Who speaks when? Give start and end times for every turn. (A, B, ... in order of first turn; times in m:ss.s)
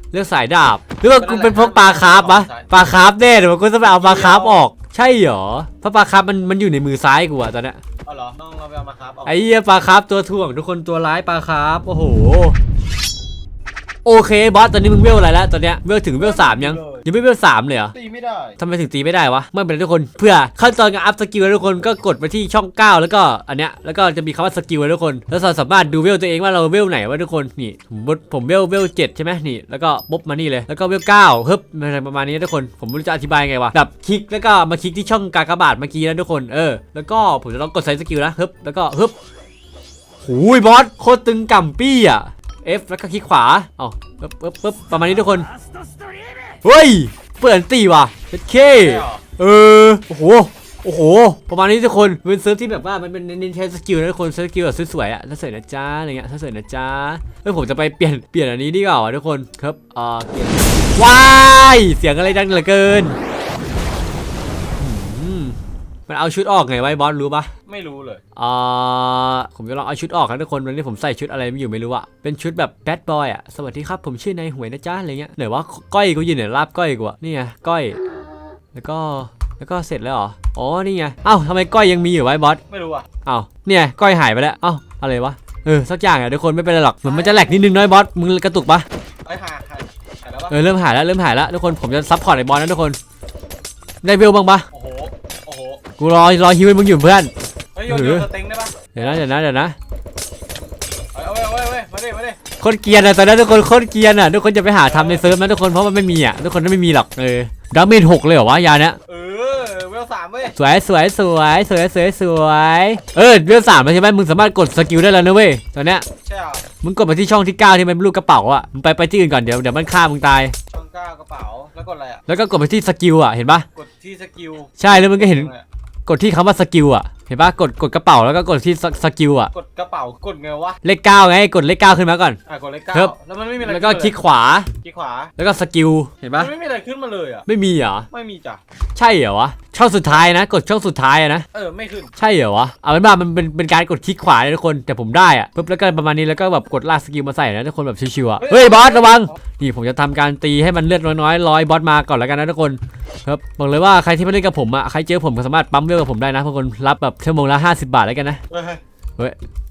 0:00.1-0:07.8 A
0:01.1-0:02.7 B
0:03.8-0:04.6 B
0:08.0-0:09.5 B
0:09.2-0:12.6 A
0:14.0-0:17.9 A
0:16.2-0:17.0 B
0:17.9-0:18.6 B
0:18.6-0:39.1 A
0:40.2-0:45.5 A
0:46.6-1:03.2 A
0:48.6-0:49.2 B
1:04.8-1:05.6 A
1:06.1-1:07.5 A
1:07.6-1:08.2 B
1:08.4-1:18.0 A
1:18.7-1:22.6 A
1:22.7-1:23.1 B
1:23.2-1:28.9 A
1:27.0-1:27.7 B
1:29.2-1:30.6 B
1:30.5-1:33.0 A
1:34.0-1:34.7 A
1:34.7-1:35.8 B
1:36.0-1:37.3 A
1:37.7-1:39.2 B
1:37.9-1:38.3 A
1:38.9-1:39.8 A
1:41.1-1:42.4 B
1:42.6-1:49.0 A
1:44.8-1:45.3 B
1:49.1-1:50.6 B
1:50.6-1:56.0 A
1:56.2-1:56.6 B
1:56.8-2:00.5 A
2:00.7-2:02.2 B
2:02.3-2:03.6 A
2:03.7-2:05.6 B
2:04.8-2:05.5 A
2:06.0-2:09.5 A
2:09.5-2:10.8 B
2:10.8-2:12.4 A
2:12.5-2:14.2 B
2:12.9-2:14.7 A
2:14.8-2:15.3 B
2:15.4-2:16.5 A
2:16.3-2:17.4 B
2:17.4-2:18.1 A
2:18.1-2:18.6 B
2:19.0-2:21.4 A
2:21.5-2:22.1 B
2:22.2-2:38.4 A
2:28.4-2:29.3 B
2:38.5-2:38.8 B